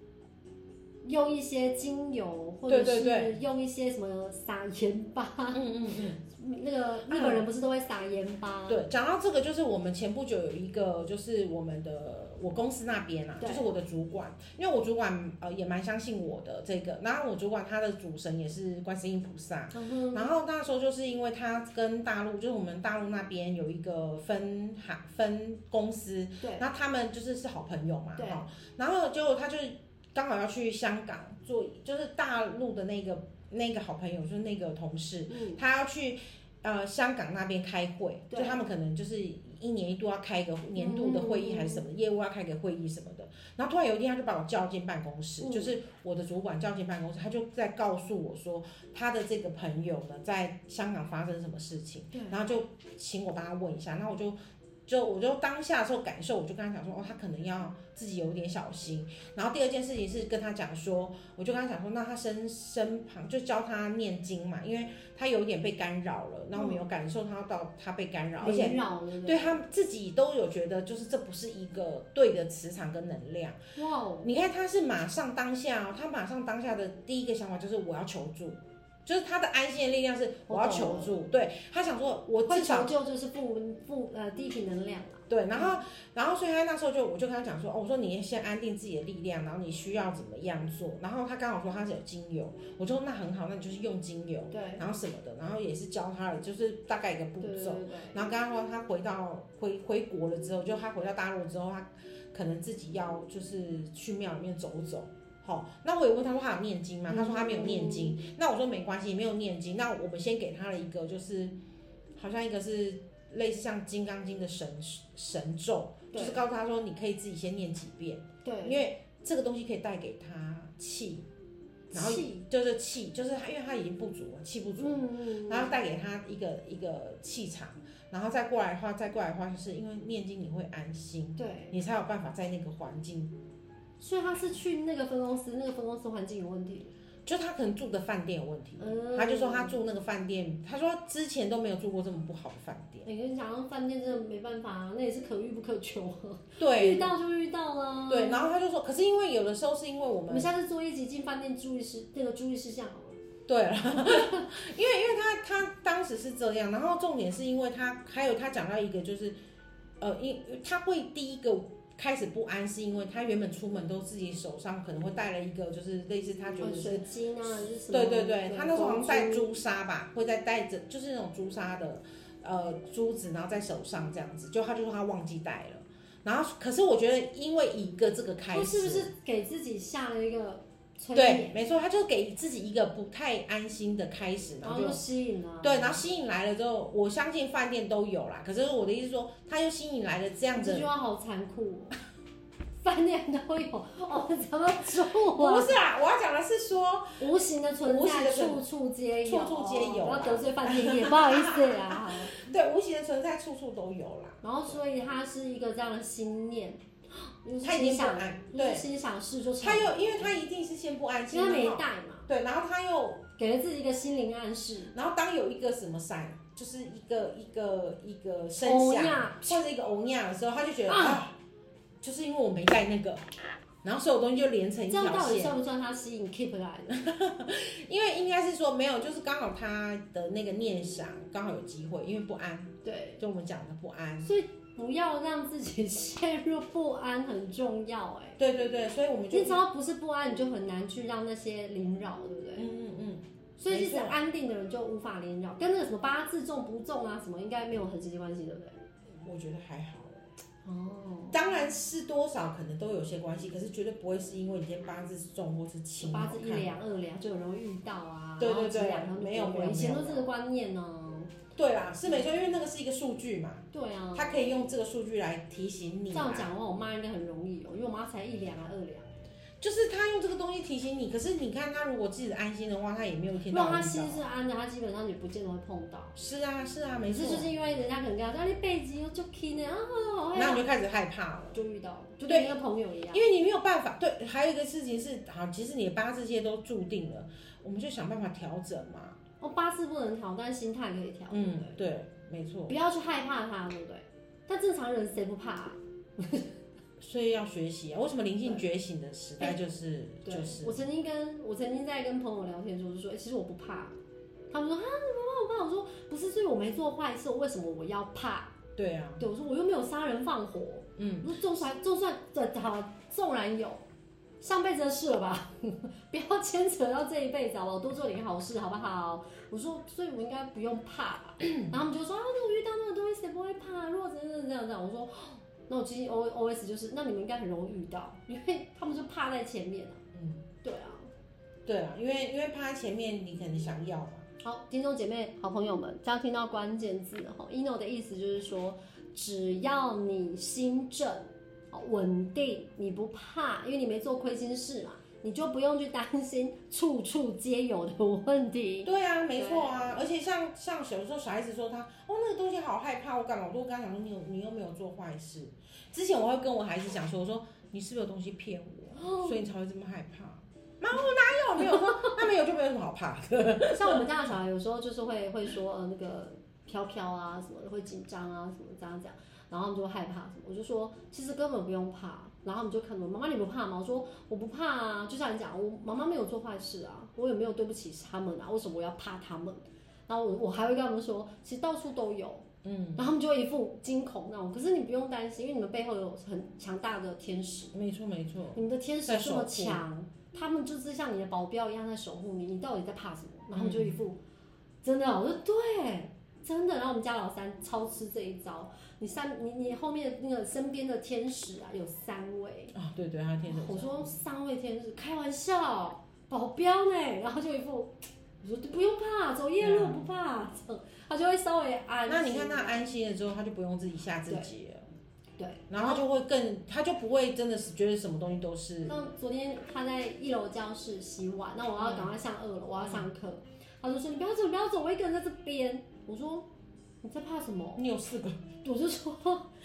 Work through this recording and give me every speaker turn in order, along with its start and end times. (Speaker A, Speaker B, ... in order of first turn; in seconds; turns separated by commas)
Speaker A: 1.0-5.7, Speaker B: 2.7-3.4, Speaker B: 5.5-6.2, Speaker A: 6.2-8.8, Speaker B: 7.1-7.5, Speaker B: 8.7-73.6, Speaker A: 13.4-13.7, Speaker A: 19.7-20.3, Speaker A: 26.4-26.6, Speaker A: 28.2-28.4, Speaker A: 35.3-35.6, Speaker A: 38.3-38.6, Speaker A: 40.8-41.9, Speaker A: 45.4-45.7, Speaker A: 52.1-52.4, Speaker A: 66.6-66.8, Speaker A: 68.4-69.6, Speaker A: 73.8-74.3, Speaker B: 74.2-82.9, Speaker A: 80.5-81.2, Speaker A: 82.5-85.8, Speaker B: 85.3-111.5, Speaker A: 94.5-94.8, Speaker A: 97.4-98.3, Speaker A: 107.1-108.2, Speaker B: 112.2-121.2, Speaker A: 116.1-116.4, Speaker A: 118.4-118.8, Speaker B: 121.9-133.4, Speaker A: 121.9-122.5, Speaker A: 124.8-125.8, Speaker A: 131.4-131.8, Speaker A: 134.0-136.9, Speaker B: 137.2-143.1, Speaker A: 138.8-139.8, Speaker A: 143.1-148.5, Speaker B: 146.6-147.1, Speaker B: 148.1-150.5, Speaker A: 150.3-153.2, Speaker B: 153.5-159.4, Speaker A: 154.0-154.5, Speaker B: 160.0-167.1, Speaker A: 166.6-169.5, Speaker B: 167.9-179.1, Speaker A: 178.5-181.6, Speaker B: 181.1-185.0, Speaker A: 184.6-186.0, Speaker B: 185.6-190.9, Speaker A: 190.6-191.9, Speaker A: 192.8-195.8, Speaker B: 195.3-197.2, Speaker A: 197.2-202.3, Speaker B: 197.8-198.6, Speaker B: 199.2-204.8, Speaker A: 204.4-210.3, Speaker B: 207.6-208.8, Speaker B: 209.6-213.3, Speaker A: 211.3-212.3, Speaker A: 213.4-214.9, Speaker B: 214.9-221.4, Speaker A: 218.6-219.6, Speaker A: 220.9-221.2, Speaker B: 222.0-223.2, Speaker B: 223.8-225.6, Speaker A: 224.9-227.0, Speaker B: 226.9-234.3, Speaker A: 232.8-233.2, Speaker A: 234.2-238.4, Speaker B: 238.4-239.6, Speaker A: 239.3-242.7, Speaker B: 242.6-244.2, Speaker A: 243.6-248.8, Speaker B: 249.2-250.3, Speaker A: 250.6-251.4, Speaker B: 251.3-256.8, Speaker A: 256.0-261.3, Speaker B: 258.4-260.3, Speaker B: 261.6-266.5, Speaker A: 263.7-264.4, Speaker A: 266.1-269.1, Speaker B: 269.6-274.2, Speaker A: 273.5-276.1, Speaker B: 276.1-277.5, Speaker A: 277.1-280.7, Speaker B: 280.4-281.6, Speaker A: 281.5-283.3, Speaker B: 282.2-282.6, Speaker B: 283.1-289.2, Speaker A: 289.4-291.8, Speaker B: 291.3-292.8, Speaker A: 292.7-296.5, Speaker B: 297.0-300.8, Speaker A: 300.2-304.0, Speaker A: 304.5-308.6, Speaker B: 308.8-309.2, Speaker A: 309.2-313.8, Speaker B: 311.0-311.3, Speaker A: 314.4-330.0, Speaker B: 330.1-330.4, Speaker A: 330.6-331.1, Speaker B: 331.6-334.3, Speaker A: 334.4-350.0, Speaker B: 348.8-364.1, Speaker A: 359.0-359.4, Speaker A: 361.6-362.2, Speaker A: 363.7-382.4, Speaker B: 382.6-383.1, Speaker A: 383.0-387.7, Speaker B: 387.7-389.8, Speaker A: 388.6-394.2, Speaker B: 393.5-394.0, Speaker A: 394.8-402.7, Speaker B: 402.7-404.1, Speaker A: 403.5-412.8, Speaker B: 409.6-410.1, Speaker B: 412.1-414.9, Speaker A: 415.4-416.0, Speaker B: 415.7-419.0, Speaker A: 418.9-426.5, Speaker B: 421.8-422.1, Speaker B: 422.8-423.1, Speaker A: 427.0-427.8, Speaker B: 427.8-428.4, Speaker A: 428.6-429.5